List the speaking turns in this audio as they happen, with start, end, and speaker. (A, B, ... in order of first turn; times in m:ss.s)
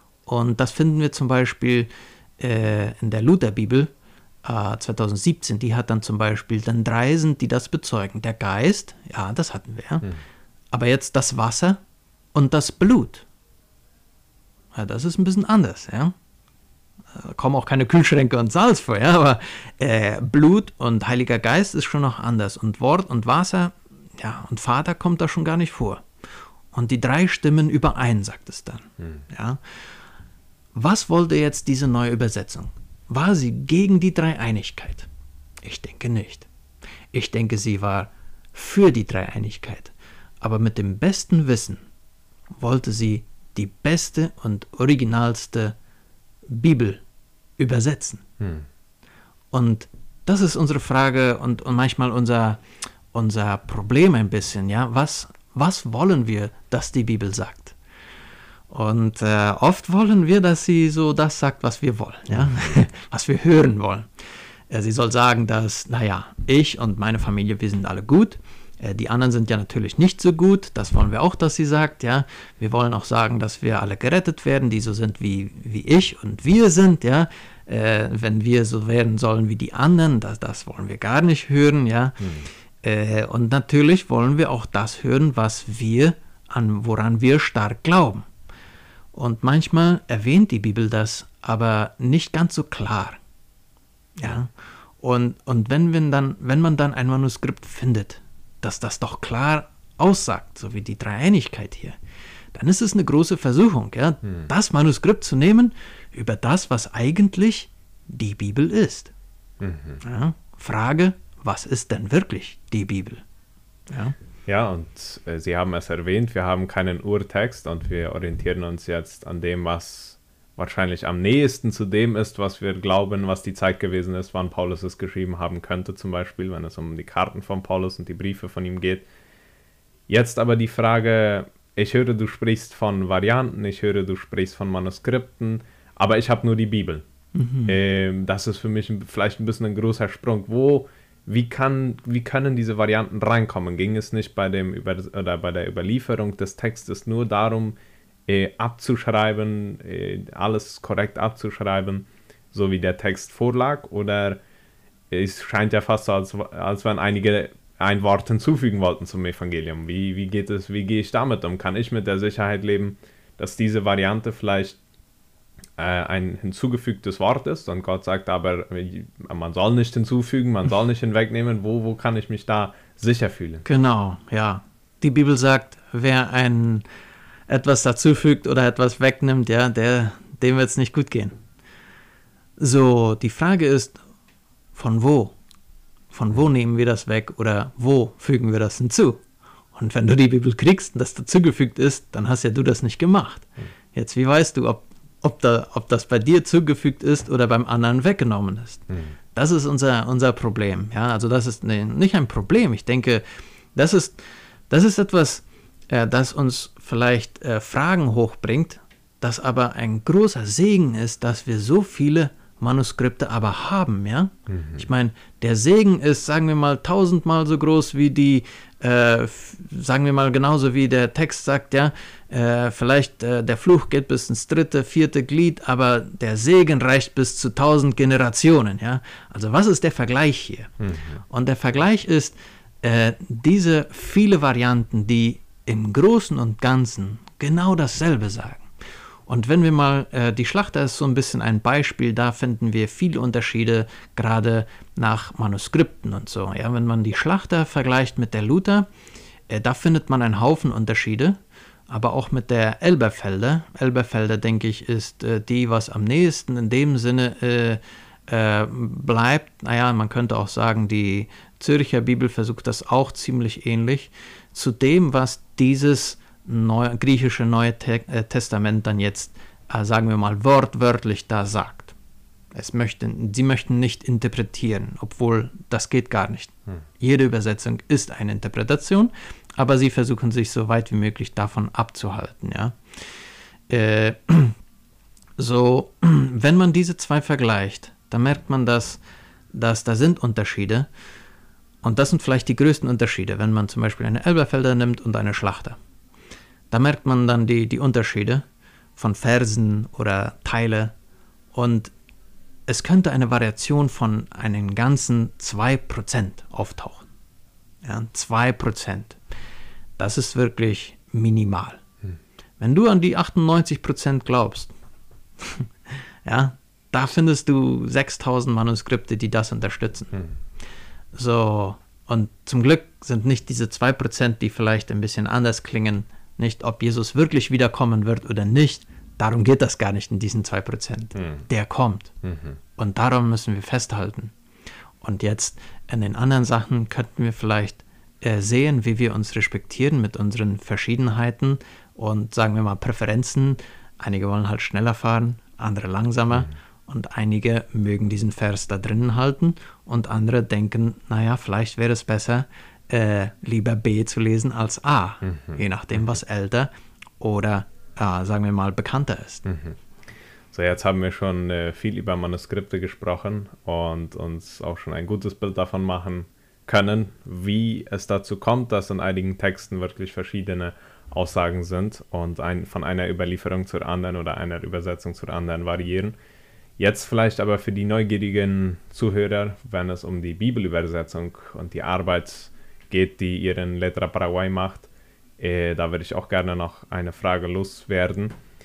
0:00.3-0:03.9 A
0:04.4-0:10.2 A
0:10.7-0:11.8 A
0:12.3-0:13.3 A
0:14.7-0:16.1 A
0:17.1-0:26.0 A
0:26.7-0:29.6 A
0:30.8-0:35.1 A
0:35.6-0:36.5 A
0:37.1-0:41.8 A
0:42.6-0:45.8 A
0:46.5-0:47.0 A
0:47.6-0:48.2 A
0:48.4-0:48.7 B
0:49.5-0:57.8 A
0:58.7-1:04.1 A
1:04.7-1:28.3 A
1:22.2-1:22.5 B
1:29.1-1:33.2 A
1:34.2-1:42.0 A
1:42.5-1:49.1 A
1:49.6-1:50.0 B
1:50.0-1:53.2 A
1:53.9-1:54.2 A
1:54.5-2:09.1 B
2:10.1-2:17.0 B
2:17.4-2:17.7 A
2:17.7-2:34.4 B
2:35.1-2:44.8 B
2:45.8-2:53.6 B
2:53.6-2:56.8 A
2:57.5-3:01.4 A
3:02.6-3:04.0 A
3:04.8-3:05.4 A
3:06.1-3:09.2 A
3:09.7-3:23.2 A
3:23.8-3:50.7 A
3:34.5-3:34.8 B
3:50.8-3:51.2 B
3:51.3-3:58.7 A
3:59.3-4:08.9 A
4:09.5-4:32.0 A
4:32.5-4:42.8 A
4:43.7-4:44.6 A
4:45.4-4:49.0 A
4:49.5-4:50.9 A
4:51.8-4:55.8 A
4:56.7-4:58.4 A
4:59.0-5:00.9 A
5:01.5-5:01.9 A
5:02.7-5:07.1 A
5:07.8-5:09.2 A
5:10.0-5:11.8 A
5:12.6-5:14.7 A
5:15.4-5:20.1 A
5:21.1-5:32.1 A
5:31.2-5:31.5 B
5:32.2-5:32.6 B
5:32.8-5:34.3 A
5:35.0-5:59.5 A
5:55.3-5:55.6 B
5:59.5-5:59.8 B
6:00.5-6:16.2 B
6:16.8-6:28.4 B